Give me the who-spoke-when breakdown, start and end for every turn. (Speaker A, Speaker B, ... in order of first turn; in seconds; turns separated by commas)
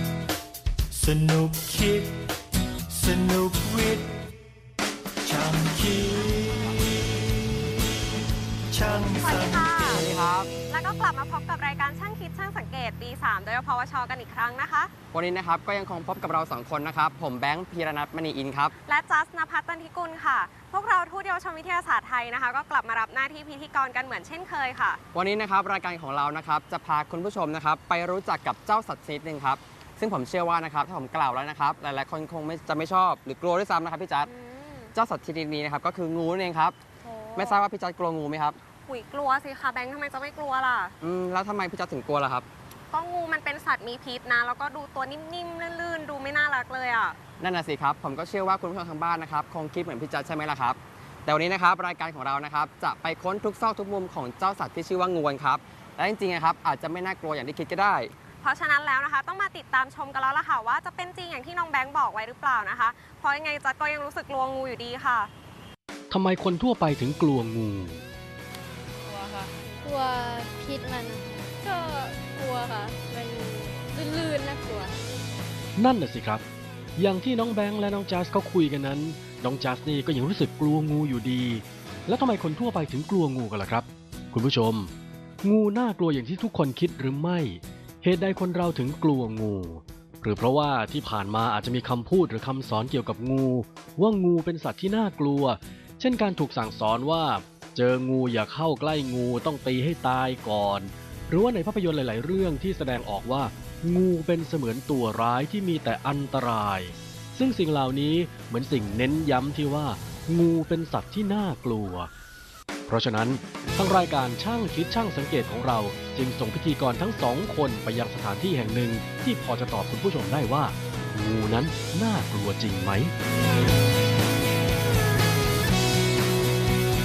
Speaker A: 0.9-2.3, Speaker A: 2.9-4.2, Speaker A: 5.2-8.0, Speaker A: 8.7-9.9, Speaker B: 9.0-14.9, Speaker C: 9.9-10.6, Speaker C: 15.1-18.7, Speaker B: 18.8-25.0, Speaker C: 25.1-34.3, Speaker B: 34.2-35.0, Speaker C: 34.9-36.8, Speaker B: 37.0-37.6, Speaker C: 37.4-38.6, Speaker B: 38.9-41.0, Speaker C: 41.0-42.5, Speaker B: 42.9-47.2, Speaker C: 47.4-58.1, Speaker B: 58.4-65.3, Speaker D: 66.1-68.0, Speaker E: 69.0-75.0, Speaker D: 75.8-76.4, Speaker D: 77.0-84.9, Speaker D: 85.4-112.1, Speaker D: 112.9-123.1